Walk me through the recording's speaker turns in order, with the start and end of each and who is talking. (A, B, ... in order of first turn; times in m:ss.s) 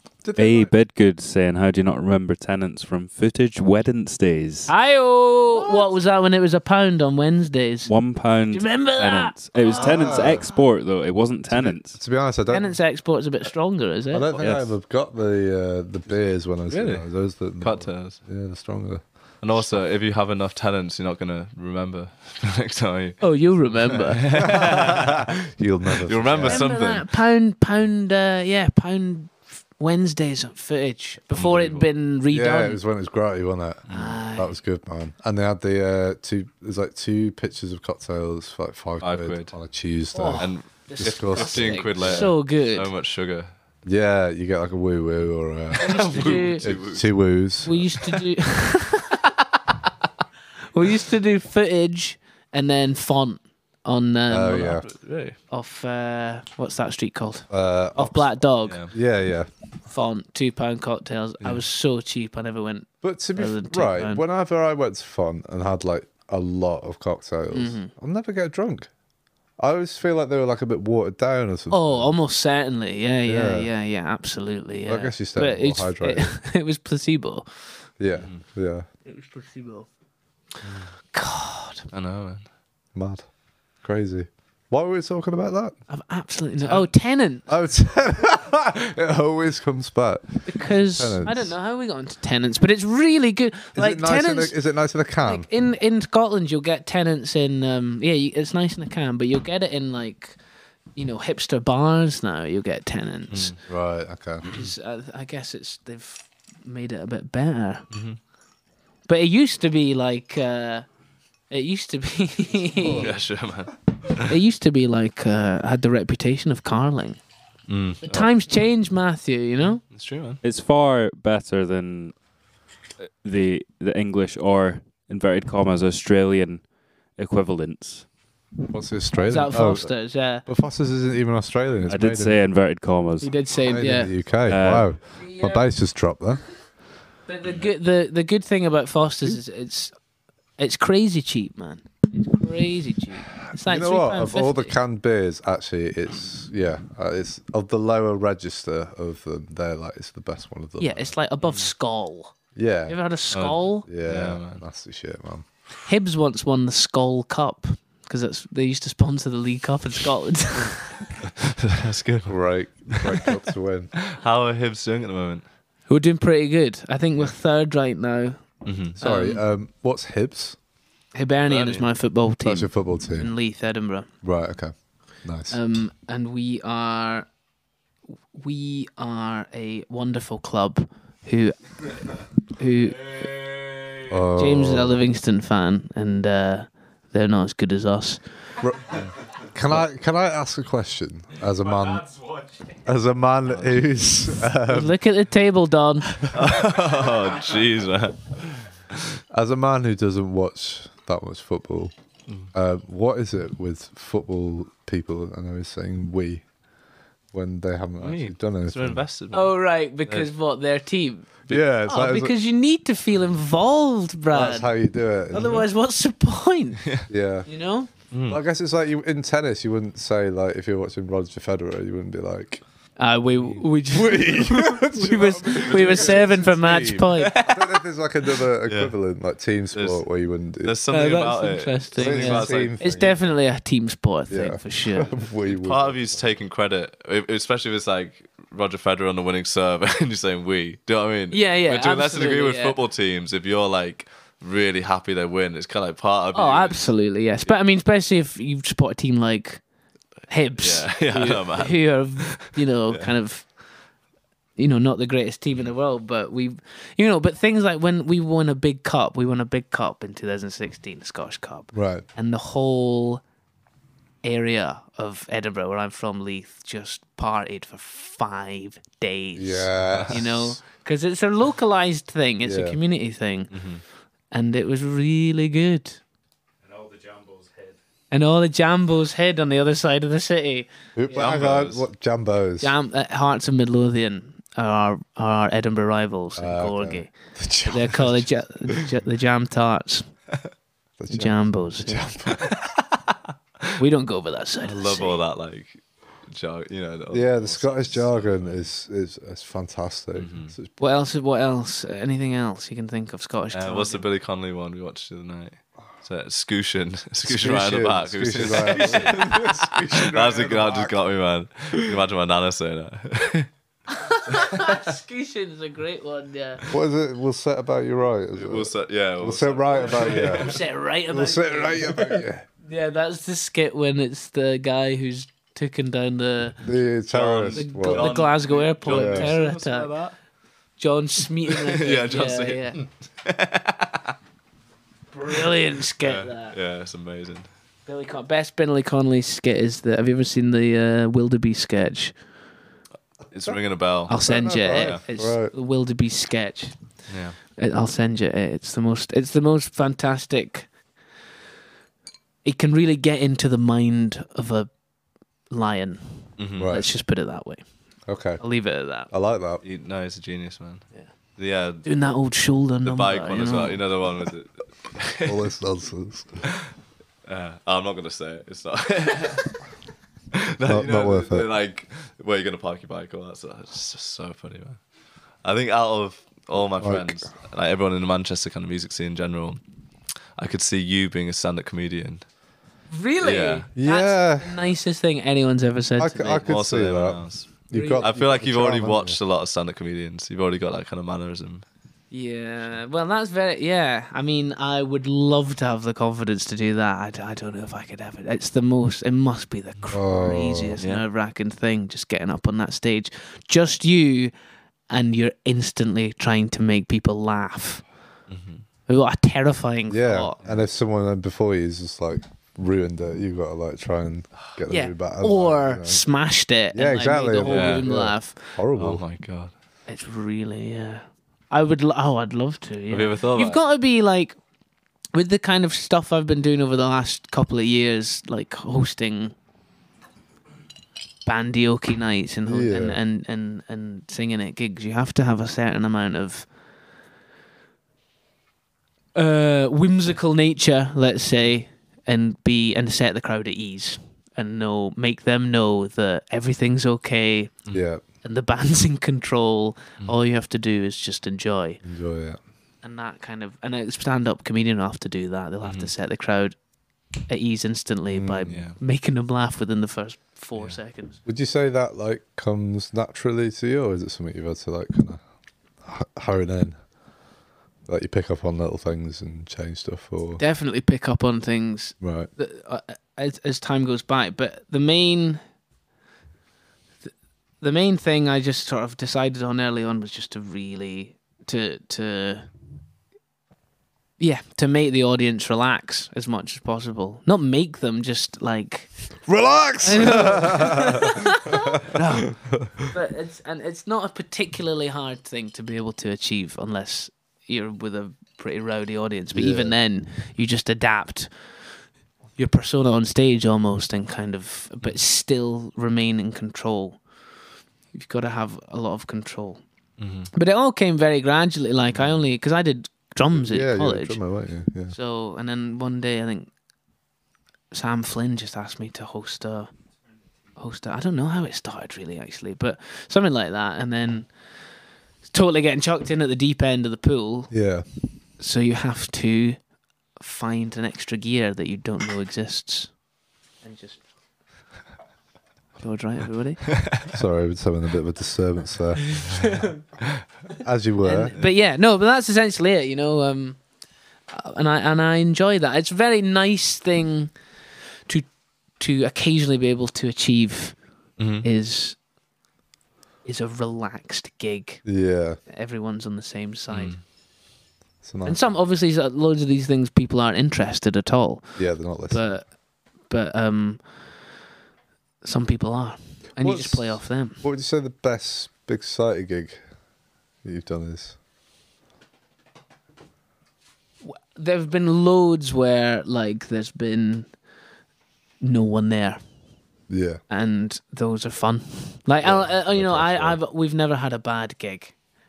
0:00.2-0:00.7 A
0:00.4-0:04.7 B
0:04.7-0:07.9 C
0:07.9-0:12.0 B
0:08.5-0:10.5 C
0:09.7-0:10.5 A
0:11.5-0:12.8 A
0:12.5-0:14.5 C
0:14.1-0:19.6 A
0:14.3-0:14.7 D
0:16.7-0:18.2 D
0:19.4-0:25.2 D
0:23.2-0:24.4 C
0:24.3-0:26.8 A
0:26.0-0:27.1 D
0:26.4-0:32.8 C
0:31.3-0:31.9 D
0:32.3-0:42.3 A
0:33.9-0:34.2 D
0:33.9-0:34.5 C
0:39.0-0:39.6 D
0:40.1-0:42.9 C
0:40.4-0:43.5 D
0:43.8-0:47.9 A
0:45.7-0:48.1 D
0:45.8-0:46.7 C
0:47.6-0:49.3 C
0:50.7-0:54.8 C
0:54.3-0:54.9 A
0:54.8-0:55.4 D
0:55.5-0:58.9 C
0:57.5-0:59.5 A
0:58.6-0:58.9 D
0:59.9-1:04.2 C
1:03.0-1:08.9 A
1:07.5-1:07.9 C
1:09.6-1:12.2 A
1:11.7-1:17.5 C
1:13.3-1:13.7 A
1:14.9-1:16.4 A
1:18.0-1:18.9 A
1:18.1-1:18.4 D
1:19.0-1:19.9 C
1:20.6-1:20.9 D
1:21.1-1:21.9 C
1:21.9-1:22.5 D
1:22.9-1:23.3 A
1:23.8-1:25.8 A
1:25.9-1:27.5 C
1:26.6-1:26.9 D
1:27.5-1:31.5 A
1:30.5-1:34.6 C
1:33.8-1:35.5 A
1:35.2-1:40.4 C
1:41.0-1:43.6 C
1:43.3-1:43.6 D
1:43.7-1:44.5 A
1:44.4-1:44.7 D
1:44.5-1:47.9 C
1:47.9-1:48.2 D
1:49.1-1:50.9 C
1:51.5-1:53.1 C
1:52.7-1:53.2 A
1:53.0-1:54.3 D
1:54.3-1:57.2 C
1:57.7-1:58.3 D
1:58.0-1:59.9 C
1:59.9-2:00.4 D
2:00.4-2:02.2 B
2:03.0-2:08.1 B
2:08.7-2:12.4 A
2:09.2-2:10.5 C
2:11.9-2:13.4 B
2:13.2-2:14.3 C
2:13.6-2:16.4 A
2:14.4-2:14.9 B
2:15.1-2:15.7 C
2:17.3-2:19.9 C
2:20.6-2:24.7 C
2:23.5-2:31.2 A
2:30.8-2:32.3 C
2:32.6-2:33.0 A
2:32.9-2:33.9 C
2:33.3-2:34.6 D
2:33.9-2:35.5 A
2:35.9-2:41.1 C
2:41.6-2:43.2 D
2:42.3-2:44.0 A
2:44.1-2:45.5 D
2:45.9-2:49.4 C
2:48.6-2:49.0 D
2:49.0-2:50.6 A
2:51.1-2:54.1 C
2:51.5-2:51.9 D
2:52.4-2:53.3 A
2:54.2-2:55.6 A
2:55.5-2:57.3 C
2:58.3-3:01.7 C
3:02.6-3:03.4 C
3:04.1-3:05.0 A
3:04.3-3:08.2 C
3:08.6-3:12.1 A
3:11.7-3:12.7 E
3:12.8-3:15.0 A
3:13.5-3:14.1 D
3:14.7-3:16.2 C
3:16.3-3:19.1 D
3:19.3-3:21.9 A
3:22.5-3:26.5 A
3:27.3-3:29.0 A
3:28.0-3:30.3 D
3:29.3-3:34.7 C
3:31.5-3:32.4 A
3:34.3-3:35.6 A
3:35.3-3:37.9 C
3:35.3-3:35.6 D
3:37.1-3:37.5 A
3:38.1-3:38.4 D
3:38.3-3:42.6 A
3:43.0-3:47.5 C
3:43.9-3:50.8 A
3:45.7-3:46.3 D
3:47.2-3:47.8 D
3:48.6-3:48.9 D
3:49.7-3:50.0 D
3:50.6-3:53.2 D
3:50.9-3:55.1 C
3:52.0-3:53.2 A
3:54.3-3:56.3 A
3:55.4-4:06.9 D
4:01.3-4:02.8 C
4:06.3-4:09.6 C
4:10.3-4:13.5 C
4:10.6-4:13.1 D
4:14.6-4:23.2 C
4:21.7-4:22.1 A
4:24.2-4:33.6 C
4:29.4-4:30.5 A
4:29.8-4:30.4 D
4:32.4-4:32.8 A
4:33.5-4:33.8 D
4:34.3-4:36.0 C
4:36.6-4:37.8 E
4:38.1-4:41.4 C
4:41.0-4:42.7 A
4:41.1-4:41.9 D
4:42.6-4:47.2 C
4:46.4-4:48.3 A
4:47.7-4:50.1 C
4:51.0-4:52.6 A
4:51.1-4:52.0 C
4:53.8-4:55.2 C
4:54.6-4:58.7 D
4:57.1-5:00.8 A
5:00.1-5:00.6 D
5:00.8-5:04.1 C
5:03.5-5:13.5 D
5:07.2-5:11.0 A
5:14.0-5:16.6 C
5:16.7-5:22.5 A
5:18.4-5:20.6 D
5:20.2-5:26.6 C
5:26.6-5:28.2 A
5:27.1-5:30.2 D
5:27.5-5:30.0 C
5:28.8-5:29.4 A
5:30.8-5:32.8 C
5:31.6-5:34.0 D
5:35.1-5:36.6 C
5:36.0-5:37.5 D
5:37.9-5:42.1 C
5:43.3-5:45.1 D
5:44.1-5:46.7 C
5:44.1-5:45.5 A
5:47.1-5:47.4 D
5:47.6-5:50.7 C
5:52.4-5:54.7 C
5:55.5-5:57.6 C
5:56.4-5:56.7 D
5:56.6-5:56.9 A
5:58.1-5:58.5 A
5:58.4-5:59.1 C
5:59.1-5:59.6 A
5:59.6-6:02.0 D
6:01.8-6:04.0 C
6:02.8-6:05.4 D
6:05.2-6:06.5 A
6:07.3-6:09.6 D
6:10.4-6:14.8 D
6:10.6-6:11.5 A
6:15.4-6:19.6 D
6:16.6-6:17.3 A
6:20.4-6:22.3 D
6:22.9-6:26.5 C
6:23.2-6:23.7 D
6:23.8-6:24.8 A
6:26.0-6:29.2 A
6:26.5-6:31.6 D
6:27.7-6:28.4 C
6:32.1-6:44.3 C
6:39.9-6:40.8 A
6:40.8-6:41.0 D
6:44.9-6:47.8 C
6:48.3-6:48.7 D
6:48.9-6:50.4 C
6:49.9-6:56.1 A
6:54.7-6:58.6 C
6:56.7-6:59.0 A
6:57.4-6:57.9 D
6:58.7-6:59.5 D
6:59.9-7:04.4 C
7:02.9-7:03.6 D
7:05.1-7:09.3 C
7:11.2-7:16.5 C
7:12.4-7:13.0 A
7:19.2-7:27.5 C
7:27.7-7:28.0 A
7:28.2-7:31.8 C
7:31.8-7:32.4 A
7:32.8-7:36.6 C
7:35.6-7:35.9 D
7:37.3-7:41.2 C
7:38.1-7:38.7 A
7:38.4-7:38.8 D
7:41.2-7:45.2 A
7:45.8-7:46.8 A
7:47.9-7:50.4 A
7:50.4-7:55.4 C
7:52.0-7:52.3 A
7:57.6-8:02.5 C
8:04.2-8:08.9 C
8:09.3-8:11.2 A
8:09.8-8:12.2 C
8:12.9-8:21.6 C
8:19.3-8:19.8 A
8:22.4-8:27.0 C
8:27.9-8:29.6 C
8:30.0-8:30.3 D
8:30.3-8:34.2 C
8:33.3-8:35.0 A
8:34.9-8:36.5 C
8:37.7-8:39.7 C
8:40.1-8:40.6 E
8:40.6-8:44.3 C
8:45.3-8:47.5 C
8:47.5-8:47.9 A
8:48.4-8:49.6 C
8:50.2-8:53.0 C
8:53.6-8:54.0 C
8:55.8-8:56.8 C
8:56.9-8:59.6 A
8:59.2-8:59.6 C
9:00.6-9:01.4 A
9:01.0-9:03.6 C
9:04.3-9:07.3 C
9:08.1-9:10.8 C
9:11.2-9:11.5 D
9:11.4-9:12.0 C
9:13.2-9:14.8 C
9:14.8-9:15.4 A
9:15.5-9:17.0 C
9:16.7-9:17.0 D
9:18.0-9:18.4 A
9:18.2-9:23.9 C
9:21.6-9:22.3 A
9:25.2-9:27.4 C
9:26.4-9:29.6 A
9:30.4-9:31.2 A
9:34.0-9:37.3 C
9:38.4-9:39.2 C
9:39.9-9:40.2 A
9:40.3-9:45.0 C
9:42.2-9:43.4 A